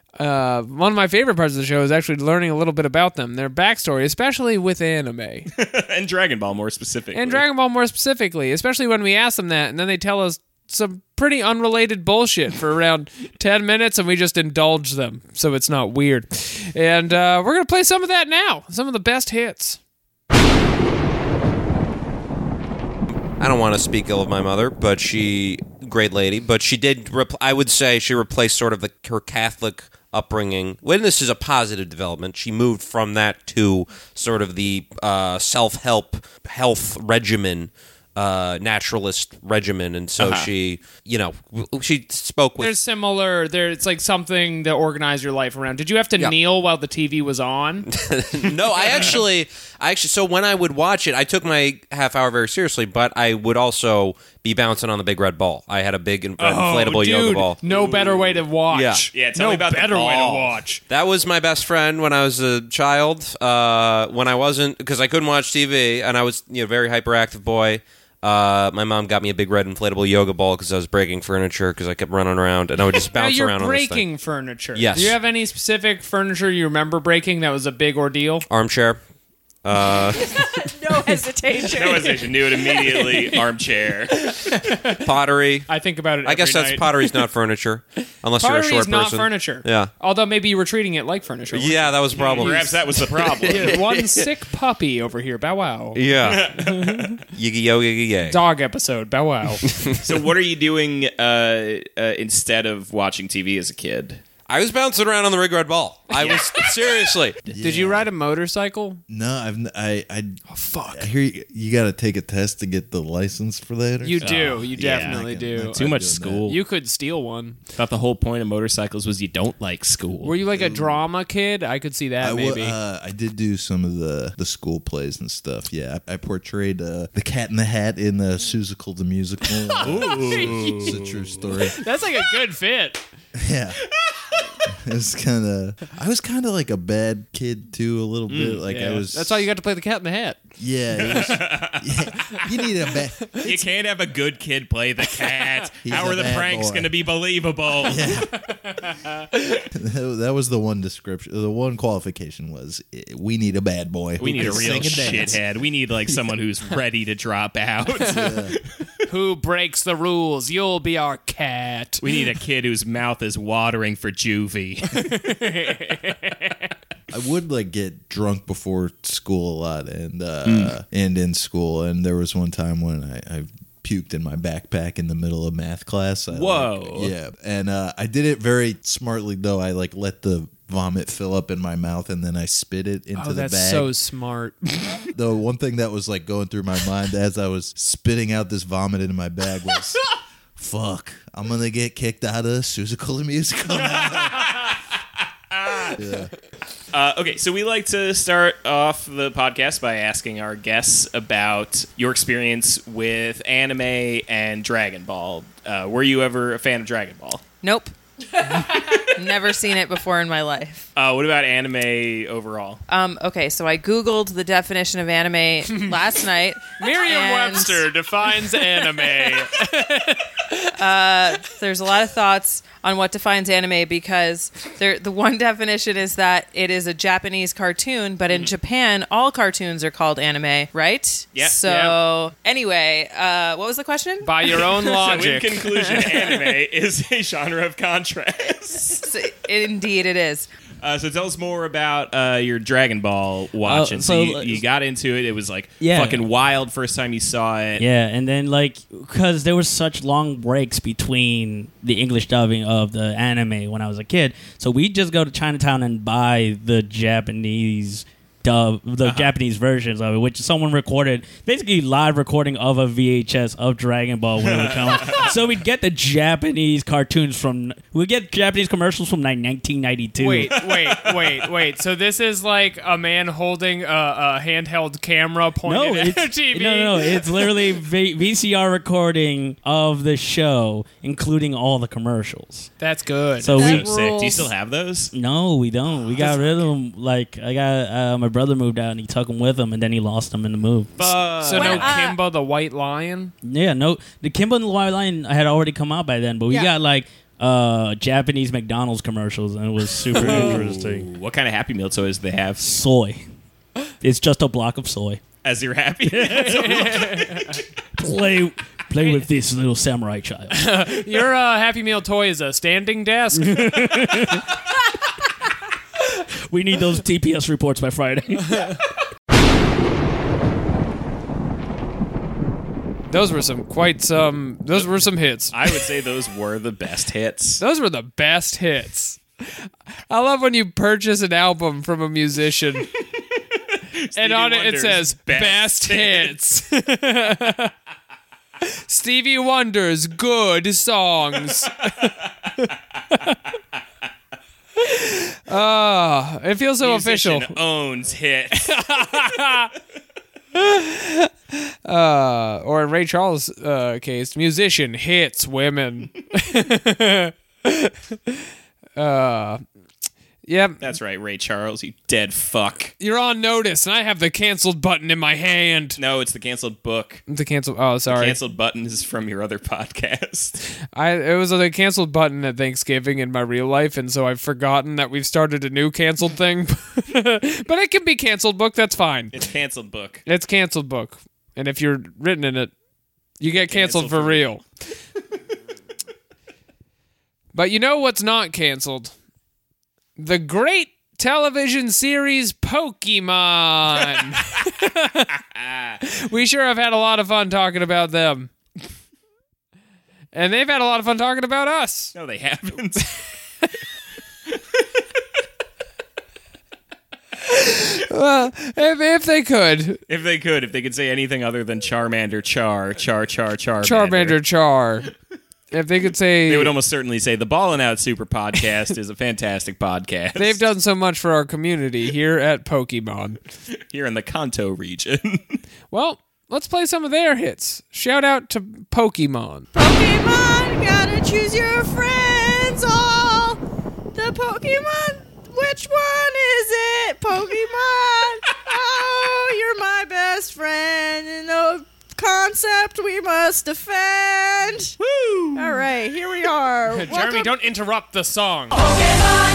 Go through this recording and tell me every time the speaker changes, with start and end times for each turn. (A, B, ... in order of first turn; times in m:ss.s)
0:00.2-0:05.5 A
0:05.5-0:07.4 B
0:07.1-0:19.8 A
0:23.4-0:42.8 C
0:40.2-0:40.5 B
0:42.6-0:47.8 A
0:47.9-0:57.6 C
0:56.4-1:00.8 A
0:57.7-0:58.4 B
0:58.7-0:59.1 C
0:59.1-1:00.6 B
1:00.9-1:14.0 C
1:13.1-1:18.4 A
1:14.7-1:15.2 C
1:18.5-1:19.0 C
1:19.6-1:20.3 C
1:20.4-1:22.2 D
1:21.7-1:24.1 B
1:21.8-1:23.4 A
1:24.2-1:25.0 A
1:25.0-1:25.7 C
1:25.7-1:27.2 A
1:26.2-1:29.9 C
1:28.4-1:36.0 A
1:31.5-1:32.6 C
1:32.1-1:33.8 B
1:33.5-1:34.2 C
1:35.9-1:36.5 C
1:36.2-1:37.1 B
1:36.6-1:37.0 A
1:37.3-1:38.4 C
1:38.3-1:39.6 A
1:40.0-1:44.2 B
1:44.5-1:47.4 C
1:47.5-1:48.1 E
1:47.6-1:49.0 A
1:49.1-1:56.5 E
1:50.5-1:51.1 A
1:54.0-1:55.8 A
1:54.2-1:55.2 B
1:55.7-1:56.6 B
1:56.4-1:57.6 A
1:57.7-2:00.4 B
2:00.2-2:02.8 A
2:00.5-2:01.0 E
2:02.2-2:11.8 E
2:09.8-2:10.9 A
2:11.7-2:13.0 A
2:13.3-2:13.8 E
2:14.8-2:19.5 E
2:18.3-2:18.6 B
2:18.7-2:20.4 A
2:20.6-2:23.4 E
2:20.9-2:21.9 B
2:23.4-2:28.2 B
2:25.8-2:26.9 E
2:27.8-2:28.3 E
2:29.7-2:35.4 E
2:34.2-2:38.6 B
2:38.0-2:38.6 E
2:39.1-2:42.0 A
2:42.0-2:45.1 B
2:44.9-2:46.4 A
2:47.1-3:03.9 E
2:50.4-2:50.7 B
2:56.3-2:57.1 B
3:03.2-3:04.6 A
3:05.1-3:10.0 E
3:10.6-3:14.7 E
3:15.5-3:16.0 B
3:16.0-3:16.3 E
3:16.9-3:27.4 B
3:27.6-3:27.9 F
3:29.1-3:30.9 F
3:30.9-3:32.8 B
3:32.9-3:37.8 F
3:35.7-3:36.0 A
3:36.8-3:40.6 A
3:40.8-3:54.3 F
3:48.3-3:48.5 B
3:51.3-3:51.6 B
3:51.6-3:52.0 A
3:54.2-3:56.3 A
3:54.8-3:59.0 B
3:59.0-4:00.5 F
4:00.8-4:07.8 B
4:03.6-4:04.6 G
4:05.8-4:06.2 G
4:07.8-4:30.6 G
4:19.0-4:19.3 B
4:24.4-4:25.3 B
4:30.2-4:37.5 A
4:30.7-4:31.3 B
4:35.6-4:42.7 G
4:42.8-4:43.6 A
4:43.4-4:43.8 G
4:43.4-4:45.1 B
4:43.6-4:44.5 D
4:45.1-4:51.4 G
4:46.2-4:46.5 A
4:51.0-4:53.3 A
4:51.5-4:52.2 D
4:53.4-5:01.1 G
5:00.1-5:02.6 B
5:02.6-5:03.2 G
5:04.0-5:05.2 G
5:05.4-5:07.4 B
5:06.1-5:06.8 G
5:06.4-5:07.6 A
5:08.0-5:11.0 G
5:10.5-5:13.9 A
5:13.3-5:14.5 G
5:16.5-5:18.7 G
5:23.1-5:25.6 A
5:25.5-5:27.6 B
5:27.6-5:32.9 A
5:34.0-5:36.3 B
5:34.2-5:37.7 A
5:38.9-5:41.9 A
5:44.8-5:47.6 A
5:46.8-5:48.8 B
5:48.6-5:49.7 A
5:50.5-5:58.4 A
5:59.0-5:59.6 A
6:00.4-6:00.8 A
6:00.8-6:02.9 B
6:03.0-6:06.0 A
6:06.0-6:07.2 B
6:07.3-6:08.4 A
6:08.1-6:10.6 B
6:10.9-6:19.3 A
6:19.3-6:20.2 B
6:20.2-6:22.7 A
6:23.4-6:24.6 A
6:23.6-6:24.6 B
6:27.5-6:29.1 A
6:30.2-6:35.3 A
6:35.5-6:36.0 B
6:36.1-6:38.5 A
6:40.3-6:42.1 A
6:42.1-6:43.0 B
6:47.4-6:50.0 A
6:50.1-6:54.4 B
6:53.8-6:55.1 A
6:55.7-6:56.7 A
6:56.5-7:00.6 B
7:00.4-7:03.4 A
7:03.9-7:05.6 B
7:05.9-7:09.7 A
7:09.7-7:13.6 D
7:14.1-7:25.0 D
7:25.6-7:27.5 D
7:26.9-7:28.7 A